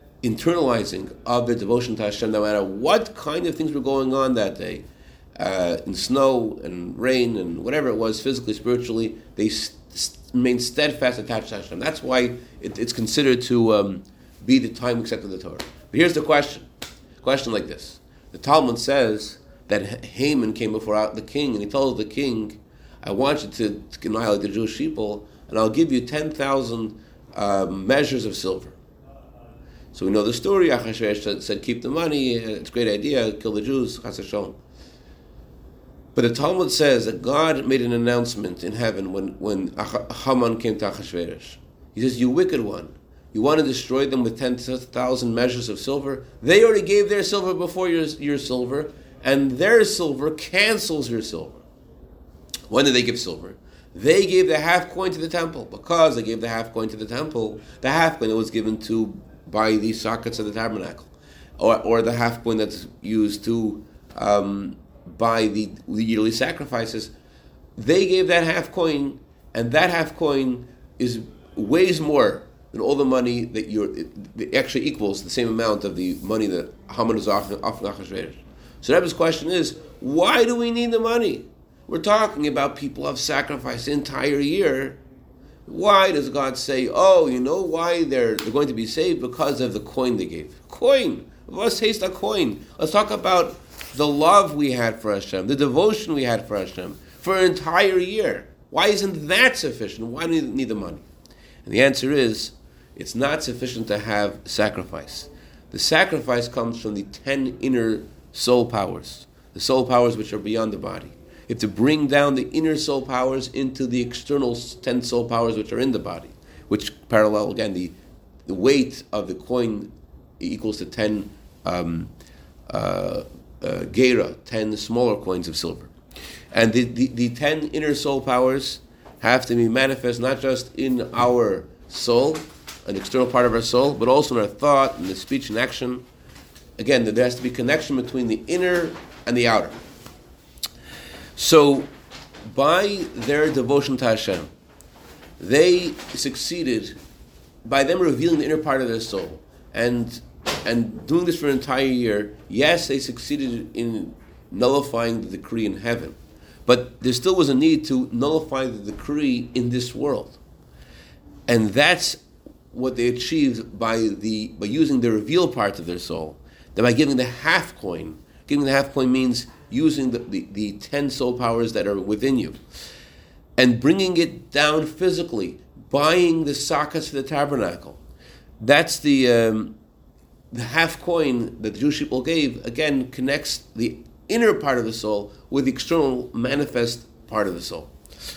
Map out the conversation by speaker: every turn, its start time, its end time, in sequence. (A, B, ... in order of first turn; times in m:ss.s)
0:00.2-0:04.8 A
0:05.4-0:16.7 A
0:17.2-0:28.8 A
0:29.9-0:34.6 A
0:36.2-0:51.6 A
0:52.7-1:07.1 A
1:07.8-1:25.0 A
1:25.7-1:41.0 A
1:41.6-2:02.1 A
2:02.7-2:05.9 A
2:06.5-2:16.0 A
2:16.8-2:19.8 A
2:21.4-2:21.9 A
2:22.5-2:24.5 A
2:25.4-2:27.0 A
2:27.6-2:40.4 A
2:41.5-2:42.2 A
2:42.7-2:52.6 A
2:53.6-2:58.0 A
2:58.6-2:59.8 A
3:00.5-3:07.9 A